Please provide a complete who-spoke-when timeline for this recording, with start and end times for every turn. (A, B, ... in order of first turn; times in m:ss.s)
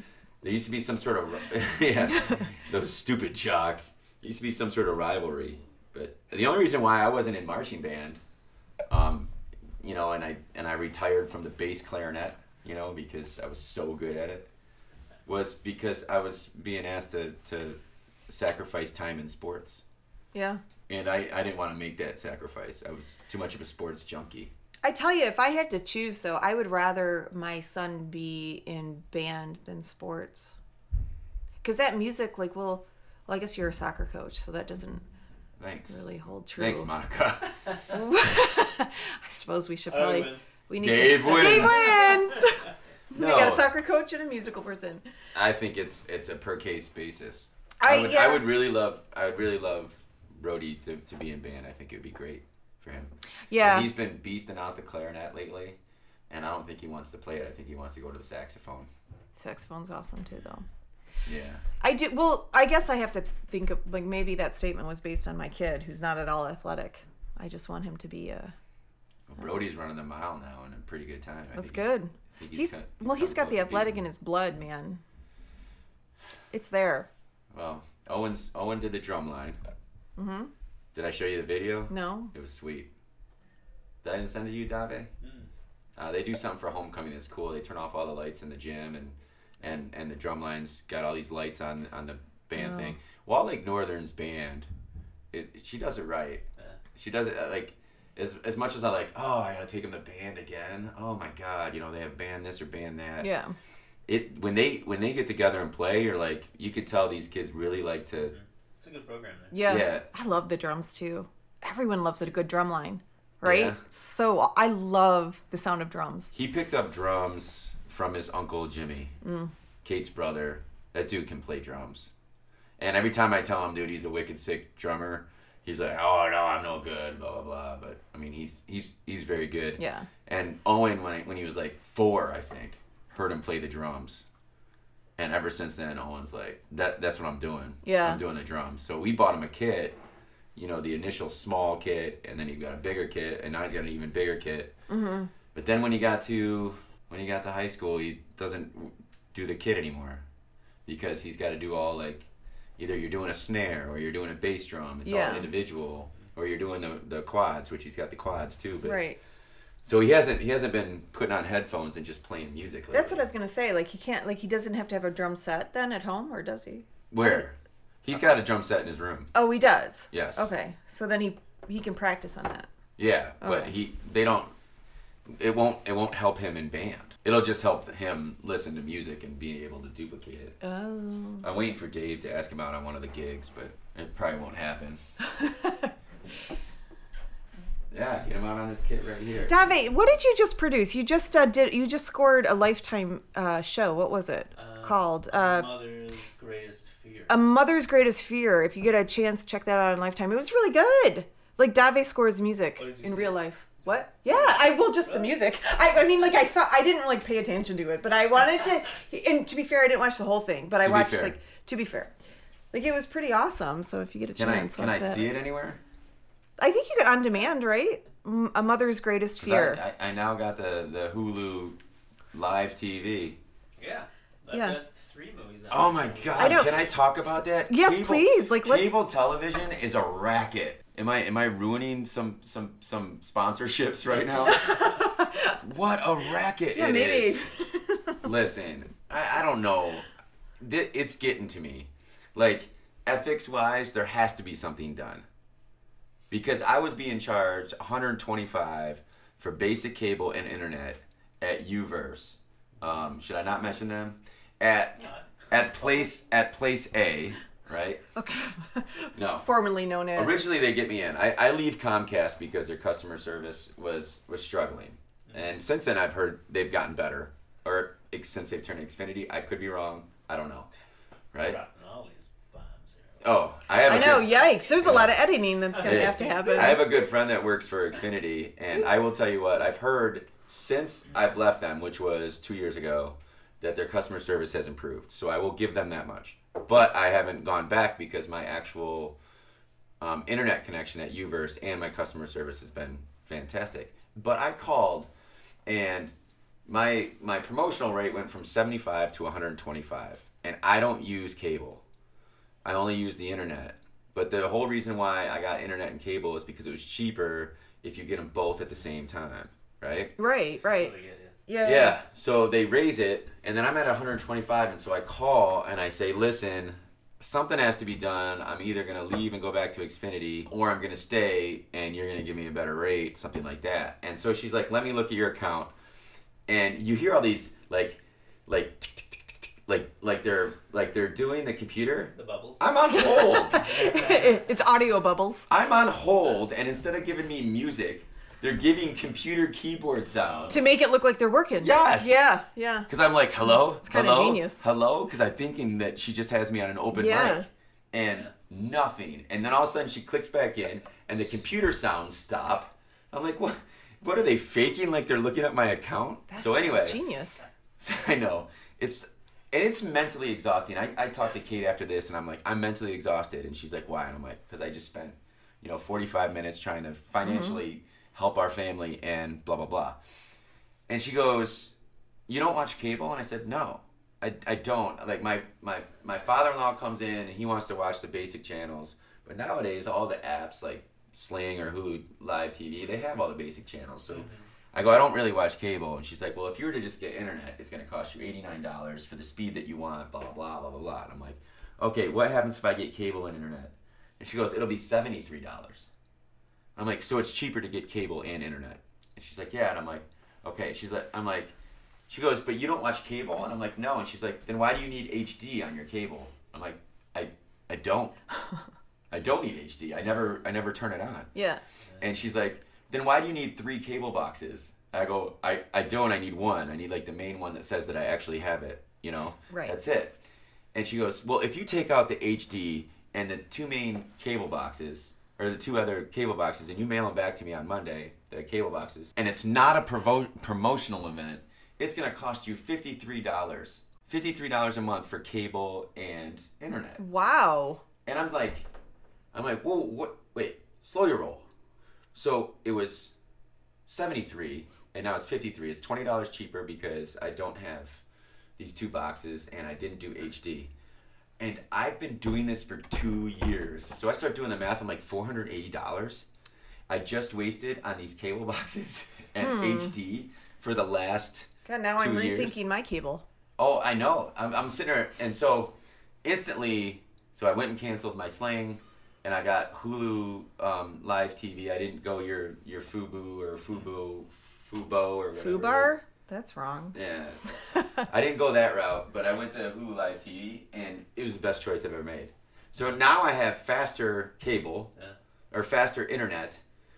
0:00.4-0:08.2 A
0:08.9-0:14.5 A
0:15.3-0:17.8 A
0:18.3-0:19.8 A
0:20.3-0:20.6 B
0:20.9-0:24.5 A
0:24.8-0:30.6 B
0:31.6-0:35.0 B
0:35.6-0:37.8 A
0:35.9-0:36.9 B
0:37.9-0:45.1 B
0:39.9-0:40.4 C
0:40.8-0:42.2 A
0:41.2-0:42.6 C
0:43.1-0:43.7 A
0:45.3-0:55.8 A
0:47.8-0:48.5 B
0:53.5-0:53.9 B
0:56.3-0:58.9 A
0:59.4-1:00.7 B
1:01.2-1:01.6 A
1:01.8-1:08.6 B
1:09.3-1:14.0 A
1:11.6-1:15.0 B
1:16.5-1:17.1 B
1:17.5-1:19.6 A
1:20.2-1:20.5 B
1:20.9-1:22.9 A
1:21.9-1:22.3 B
1:24.0-1:25.1 A
1:25.2-1:25.5 C
1:26.0-1:34.7 A
1:32.6-1:33.0 B
1:35.3-1:43.3 A
1:43.2-1:43.6 B
1:44.1-1:48.3 A
1:48.2-1:49.6 C
1:49.5-1:56.3 B
1:49.6-1:50.1 A
1:53.4-1:53.8 A
1:56.3-1:59.2 A
1:59.2-1:59.5 B
1:59.8-2:02.1 A
2:02.8-2:14.2 A
2:09.8-2:10.1 B
2:15.2-2:20.0 A
2:17.8-2:18.2 B
2:20.6-2:24.7 A
2:24.9-2:25.3 B
2:25.5-2:30.2 A
2:30.9-2:32.3 A
2:32.8-2:39.0 A
2:35.0-2:35.5 B
2:38.8-2:39.2 B
2:39.8-2:43.3 A
2:42.9-2:47.4 B
2:47.1-2:49.3 A
2:49.3-2:52.7 B
2:50.1-2:50.5 A
2:53.0-2:54.5 A
2:53.4-2:53.7 B
2:55.3-3:00.6 A
3:00.6-3:01.5 B
3:01.4-3:05.0 A
3:05.3-3:05.9 B
3:07.9-3:09.7 A
3:09.4-3:15.7 B
3:14.6-3:17.4 C
3:17.3-3:32.1 B
3:22.8-3:25.4 C
3:30.8-3:31.4 A
3:32.7-3:35.3 B
3:34.4-3:35.8 A
3:36.6-3:39.8 B
3:39.4-3:41.8 A
3:42.3-3:43.4 A
3:43.8-3:47.0 C
3:44.5-3:44.8 B
3:45.7-3:55.0 A
3:46.4-3:48.9 B
3:54.5-3:55.6 B
3:55.5-3:57.5 A
3:56.7-3:58.2 B
3:58.2-4:00.1 A
4:00.6-4:05.2 A
4:06.3-4:18.0 A
4:15.0-4:16.1 C
4:18.2-4:20.5 B
4:19.2-4:19.5 A
4:20.2-4:30.7 A
4:31.3-4:31.6 A
4:31.4-4:33.2 C
4:33.2-4:35.2 A
4:33.8-4:36.9 B
4:33.9-4:36.9 C
4:35.8-4:49.2 A
4:50.0-4:55.1 A
4:55.7-4:56.1 A
4:56.7-5:01.8 A
5:02.6-5:10.1 A
5:10.2-5:10.9 B
5:10.7-5:11.4 C
5:11.5-5:12.0 B
5:11.6-5:25.7 A
5:26.5-5:33.8 A
5:32.2-5:32.8 C
5:33.0-5:35.5 B
5:33.4-5:34.5 C
5:35.5-5:40.6 A
5:40.2-5:40.6 C
5:40.5-5:42.9 B
5:41.6-5:42.2 A
5:42.9-5:57.0 A
5:43.7-5:44.7 B
5:46.9-5:47.5 B
5:48.0-5:48.3 C
5:56.3-5:57.4 B
5:57.8-6:10.0 A
6:07.2-6:07.6 B
6:10.9-6:11.7 A
6:12.3-6:35.9 A
6:24.1-6:24.4 C
6:36.8-6:41.5 A
6:42.1-6:48.1 A
6:49.1-6:51.3 A
6:51.4-6:51.6 B
6:52.0-7:00.2 A
6:59.5-6:59.8 B
7:00.7-7:17.0 A
7:17.0-7:17.8 B
7:18.1-7:18.7 A
7:19.3-7:21.5 A
7:22.1-7:23.1 A
7:23.9-7:28.0 A
7:28.6-7:30.7 A
7:31.4-7:36.3 A
7:36.9-7:42.6 A
7:39.4-7:39.9 B
7:41.6-7:43.2 B
7:43.6-7:56.0 A
7:55.4-7:57.0 B
7:56.9-8:04.9 A
7:57.7-7:58.0 B
8:05.5-8:06.6 A